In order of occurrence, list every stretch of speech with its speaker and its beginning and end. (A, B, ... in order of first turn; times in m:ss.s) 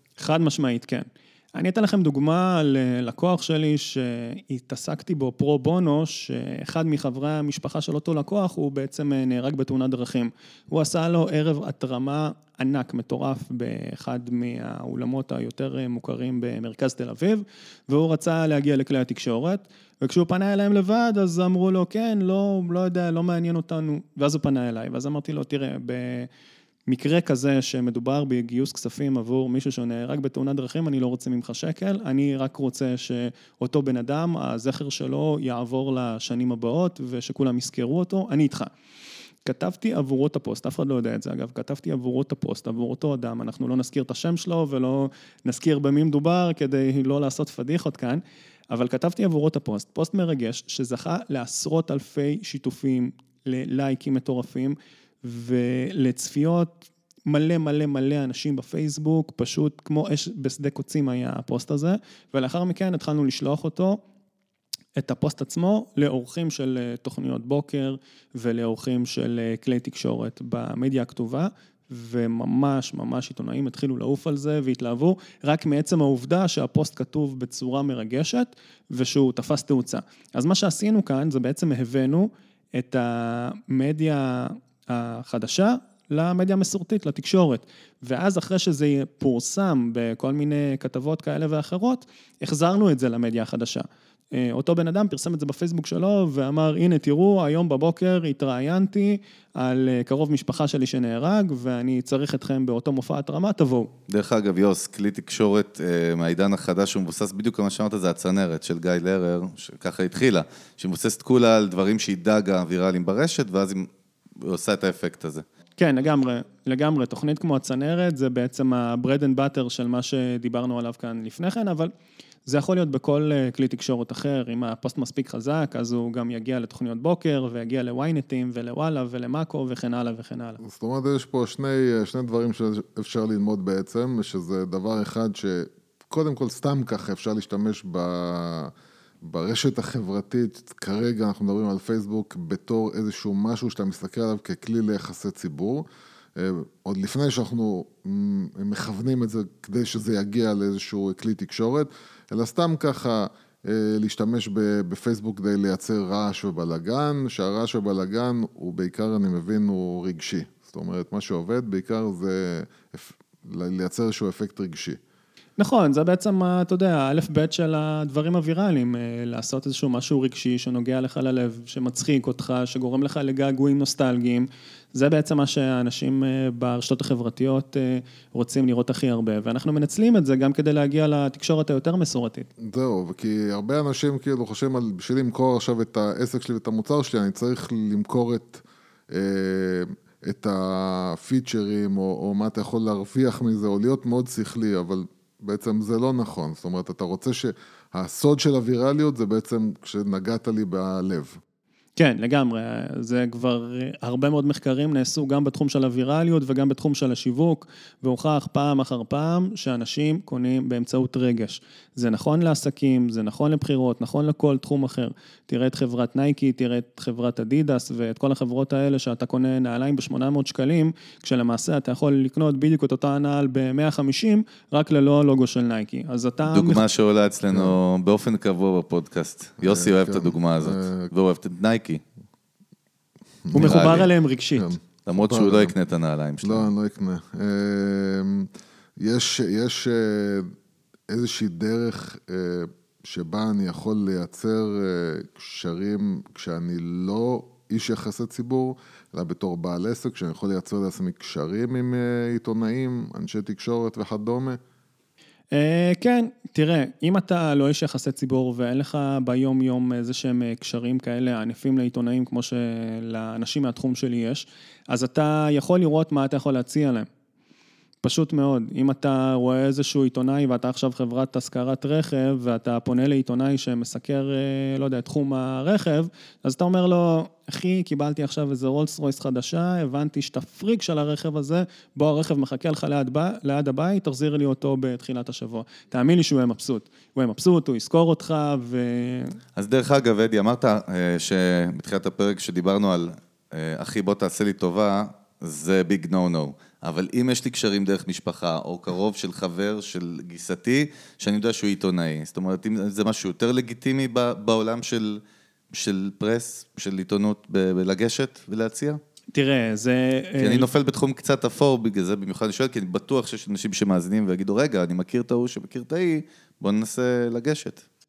0:00.2-0:26.3 A
0:26.9-0:38.7 A
0:39.4-1:04.0 A
1:05.0-1:43.9 A
1:44.1-1:53.9 B
1:54.4-1:55.4 B
1:55.8-2:01.9 A
2:02.5-2:10.6 A
2:10.6-2:18.7 C
2:19.2-2:25.8 C
2:26.4-2:45.0 C
2:45.6-3:02.5 A
3:02.6-3:21.4 C
3:22.0-3:46.8 A
3:46.5-3:52.0 B
3:47.5-3:47.8 C
3:49.6-3:51.1 C
3:53.5-3:54.0 C
3:53.5-3:54.7 A
3:53.6-3:54.1 B
3:54.6-3:55.7 C
3:55.1-3:56.7 B
3:56.4-3:58.5 C
3:59.0-4:00.5 C
4:01.1-4:14.6 C
4:15.5-4:27.1 A
4:28.0-4:49.4 A
4:49.6-5:05.2 B
5:05.7-5:09.0 B
5:09.3-5:10.7 A
5:10.4-5:17.8 B